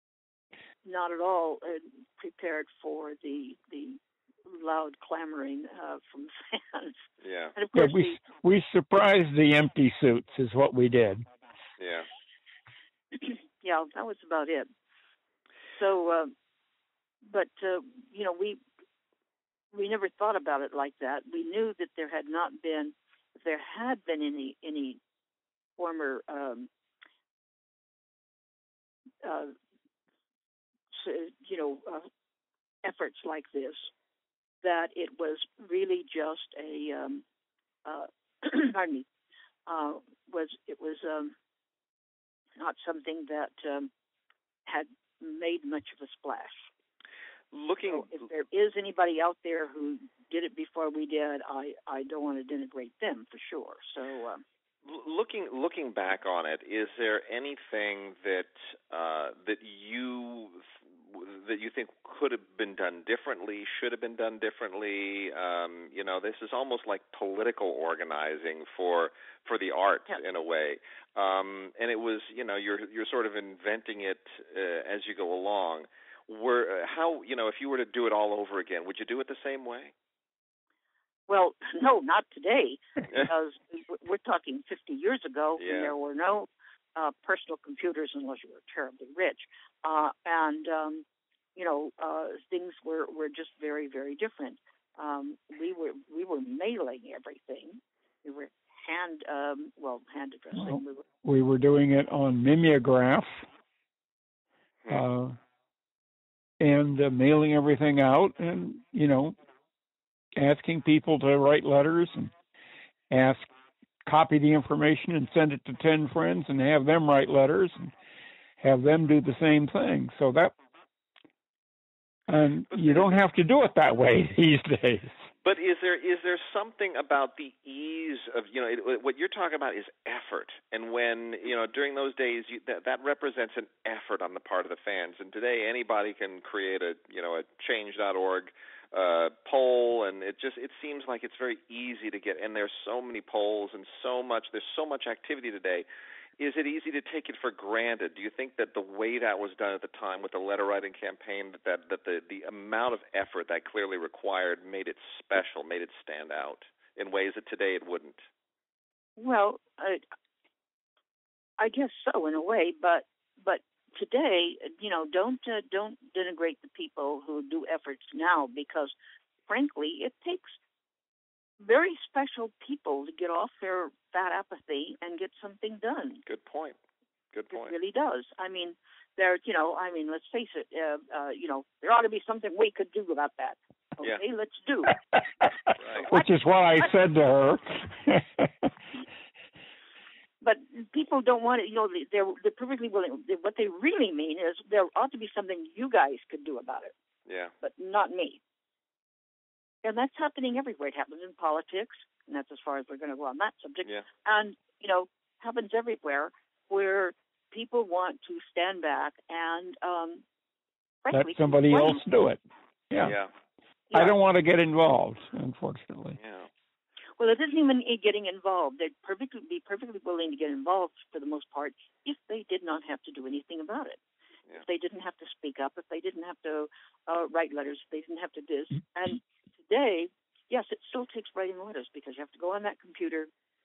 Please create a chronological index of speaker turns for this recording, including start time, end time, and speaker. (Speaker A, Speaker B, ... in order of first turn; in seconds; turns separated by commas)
Speaker A: 0.8-8.2, Speaker B: 7.2-7.5, Speaker C: 7.8-11.2, Speaker B: 11.8-12.1, Speaker A: 13.1-14.7, Speaker A: 15.8-16.3, Speaker A: 17.2-18.6, Speaker A: 19.7-25.0, Speaker A: 25.8-26.7, Speaker A: 29.2-29.5, Speaker A: 30.9-32.1, Speaker A: 32.8-33.9, Speaker A: 34.6-37.2, Speaker A: 37.9-39.1, Speaker A: 39.7-41.3, Speaker A: 42.6-43.9, Speaker A: 44.7-46.7, Speaker B: 47.5-48.1, Speaker A: 47.9-54.4, Speaker B: 54.9-60.6, Speaker B: 61.1-79.9, Speaker A: 81.3-91.0, Speaker B: 85.6-85.9, Speaker A: 91.6-101.0, Speaker C: 100.6-103.4, Speaker C: 104.9-105.4, Speaker C: 106.6-109.3, Speaker C: 110.4-112.3, Speaker C: 113.1-113.5, Speaker C: 114.1-117.9, Speaker C: 118.6-120.5, Speaker C: 122.3-125.1, Speaker B: 122.7-123.2, Speaker B: 125.4-145.9, Speaker B: 146.4-158.2, Speaker A: 159.2-160.0, Speaker A: 161.6-168.9, Speaker A: 169.5-170.6, Speaker A: 171.6-176.2, Speaker B: 176.3-176.8, Speaker B: 177.3-177.7, Speaker A: 177.5-184.9, Speaker C: 185.1-188.7, Speaker B: 185.8-186.1, Speaker A: 186.0-186.9, Speaker A: 190.4-196.9, Speaker B: 197.3-197.5, Speaker A: 197.6-198.4, Speaker A: 199.8-210.2, Speaker A: 211.0-212.0, Speaker C: 211.1-213.2, Speaker B: 213.0-213.3, Speaker A: 213.9-214.2, Speaker C: 213.9-216.2, Speaker B: 216.2-216.5, Speaker A: 217.2-224.0, Speaker A: 224.6-233.3